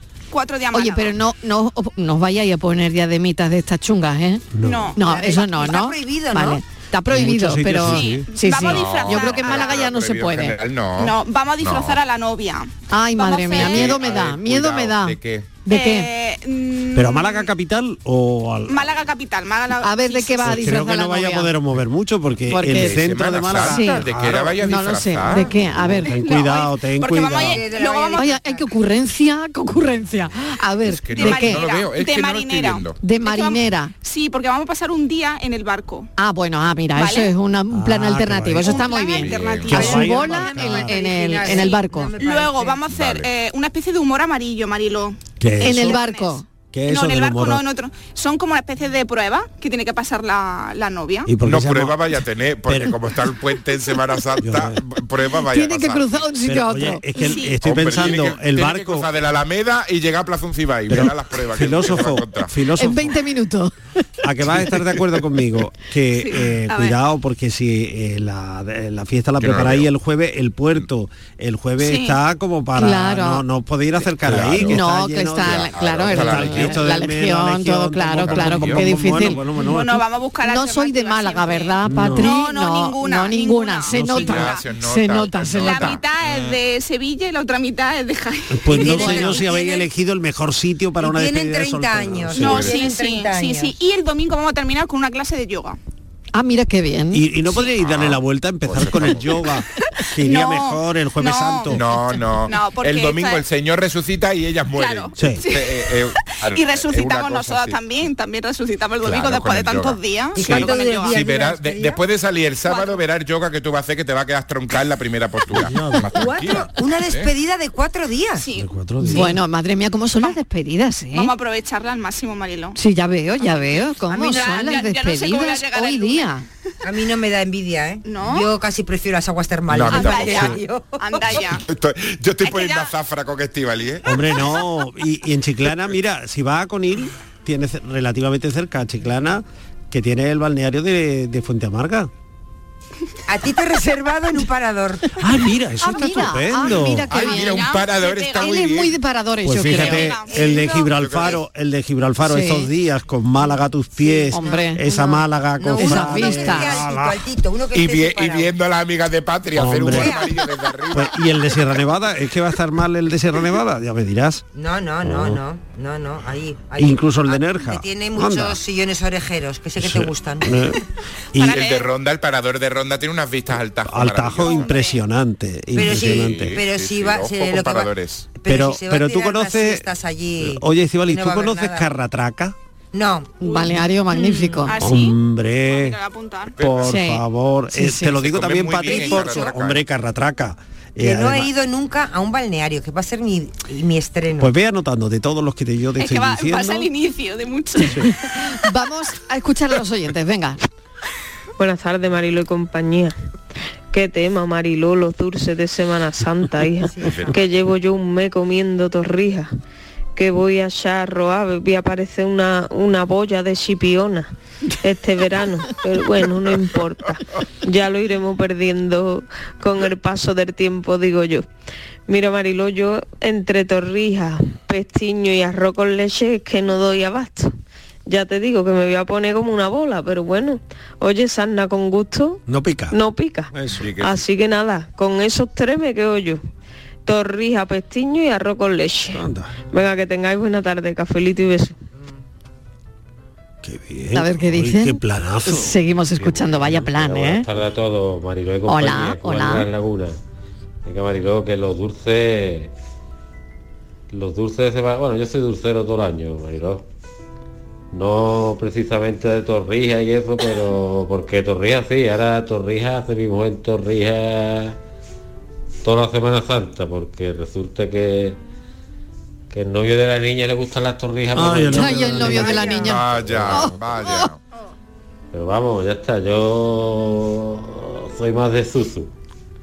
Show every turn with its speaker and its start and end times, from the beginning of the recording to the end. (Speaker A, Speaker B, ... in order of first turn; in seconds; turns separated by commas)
Speaker A: 0.3-1.1, Speaker B: 0.7-10.6, Speaker C: 4.5-5.0, Speaker A: 4.6-5.4, Speaker D: 5.0-6.6, Speaker C: 7.1-8.3, Speaker A: 7.8-9.9, Speaker E: 8.6-12.0, Speaker A: 11.0-14.0, Speaker B: 12.9-16.1, Speaker E: 13.5-15.5, Speaker A: 15.7-17.5, Speaker C: 16.9-18.9, Speaker A: 18.7-20.6, Speaker B: 19.8-21.5, Speaker C: 20.4-24.6, Speaker B: 22.5-24.0, Speaker E: 22.7-25.5, Speaker B: 24.6-26.1, Speaker C: 25.5-27.6, Speaker A: 26.1-28.4, Speaker D: 27.3-28.6, Speaker B: 28.1-31.6, Speaker E: 30.8-33.0, Speaker A: 31.1-36.1, Speaker B: 33.0-33.9, Speaker B: 36.2-42.1, Speaker A: 36.9-37.3, Speaker C: 37.7-38.9, Speaker A: 38.7-40.1, Speaker E: 39.1-39.9, Speaker C: 39.7-41.0, Speaker D: 39.7-42.9, Speaker A: 41.4-51.3, Speaker E: 42.9-43.3, Speaker C: 45.4-46.0, Speaker B: 45.6-46.4, Speaker C: 46.7-47.6, Speaker C: 51.2-52.0, Speaker E: 51.4-56.3, Speaker C: 52.7-53.0, Speaker C: 54.4-54.8, Speaker B: 55.5-57.0, Speaker C: 56.4-59.1, Speaker A: 57.2-57.6, Speaker E: 57.6-62.5, Speaker C: 60.9-63.2, Speaker B: 62.8-63.7, Speaker C: 64.2-80.0, Speaker A: 66.1-67.0, Speaker E: 69.4-69.9, Speaker A: 71.8-72.2, Speaker B: 72.8-73.4, Speaker E: 74.1-74.8, Speaker B: 74.6-79.4, Speaker E: 75.4-76.8, Speaker E: 78.2-78.8, Speaker A: 79.6-84.6, Speaker B: 80.4-86.0, Speaker C: 81.8-82.3, Speaker C: 83.9-84.4, Speaker E: 84.1-86.1, Speaker A: 85.6-89.8, Speaker C: 88.5-92.7, Speaker D: 88.7-89.5, Speaker D: 91.0-93.8, Speaker E: 92.3-92.8, Speaker A: 92.3-95.8, Speaker B: 96.3-97.3, Speaker C: 97.1-101.8, Speaker E: 97.8-99.3, Speaker A: 100.2-103.4, Speaker E: 101.7-108.1, Speaker A: 104.7-111.2, Speaker E: 109.0-117.3, Speaker D: 110.3-112.0, Speaker A: 112.6-113.0, Speaker C: 115.5-116.5, Speaker D: 116.1-118.4, Speaker A: 118.4-118.7, Speaker C: 118.5-119.4, Speaker B: 119.0-121.3, Speaker A: 121.1-122.8, Speaker B: 122.8-126.4, Speaker A: 123.4-126.3, Speaker D: 124.1-124.7, Speaker D: 126.8-131.4, Speaker A: 128.0-128.5, Speaker E: 129.7-130.6, Speaker A: 129.9-131.6, Speaker E: 131.2-134.1, Speaker A: 132.4-132.9, Speaker C: 134.0-142.1, Speaker D: 143.3-145.1, Speaker C: 145.2-147.1, Speaker B: 145.8-147.7, Speaker E: 147.1-148.9, Speaker A: 147.1-148.7, Speaker B: 148.4-150.2, Speaker C: 149.4-157.3, Speaker A: 149.6-150.7, Speaker D: 150.3-150.9, Speaker E: 150.8-151.4, Speaker B: 152.2-152.7, Speaker D: 154.0-154.6, Speaker B: 154.3-155.2, Speaker D: 155.6-158.5, Speaker B: 155.8-156.8, Speaker E: 157.7-161.8, Speaker C: 159.5-160.3, Speaker D: 159.8-160.3, Speaker C: 160.9-164.4, Speaker D: 164.5-170.6, Speaker C: 165.0-165.4, Speaker C: 166.8-168.6, Speaker C: 169.8-170.8, Speaker A: 171.3-171.9, Speaker E: 171.4-174.7, Speaker C: 173.8-176.6, Speaker A: 174.4-175.0, Speaker D: 175.7-181.9, Speaker E: 175.8-178.2, Speaker C: 178.5-182.6, Speaker D: 182.9-183.4, Speaker B: 183.4-184.8, Speaker A: 183.4-186.6, Speaker C: 184.8-186.0, Speaker E: 186.6-187.0, Speaker C: 186.6-191.5, Speaker B: 186.8-187.2, Speaker B: 187.7-188.2, Speaker E: 188.2-189.8, Speaker D: 188.8-189.5, Speaker D: 191.0-194.5, Speaker C: 194.4-196.9, Speaker A: 196.0-198.5, Speaker B: 197.8-200.6, Speaker F: 201.6-203.2, Speaker F: 203.9-209.5, Speaker F: 210.2-214.3, Speaker F: 214.8-221.4, Speaker F: 222.1-227.5, Speaker F: 228.1-236.4, Speaker C: 232.5-232.9, Speaker C: 233.5-233.8, Speaker E: 233.8-234.2, Speaker F: 237.1-241.7, Speaker C: 239.1-239.5, Speaker C: 243.6-246.9, Speaker B: 244.1-247.5, Speaker G: 246.3-250.2, Speaker B: 248.7-249.7, Speaker G: 250.8-252.7, Speaker G: 254.1-256.9, Speaker G: 257.9-264.8, Speaker G: 265.8-268.4, Speaker G: 269.5-272.5, Speaker C: 271.3-272.6, Speaker B: 271.7-274.3, Speaker A: 272.4-272.9, Speaker E: 272.6-274.4, Speaker G: 275.3-279.1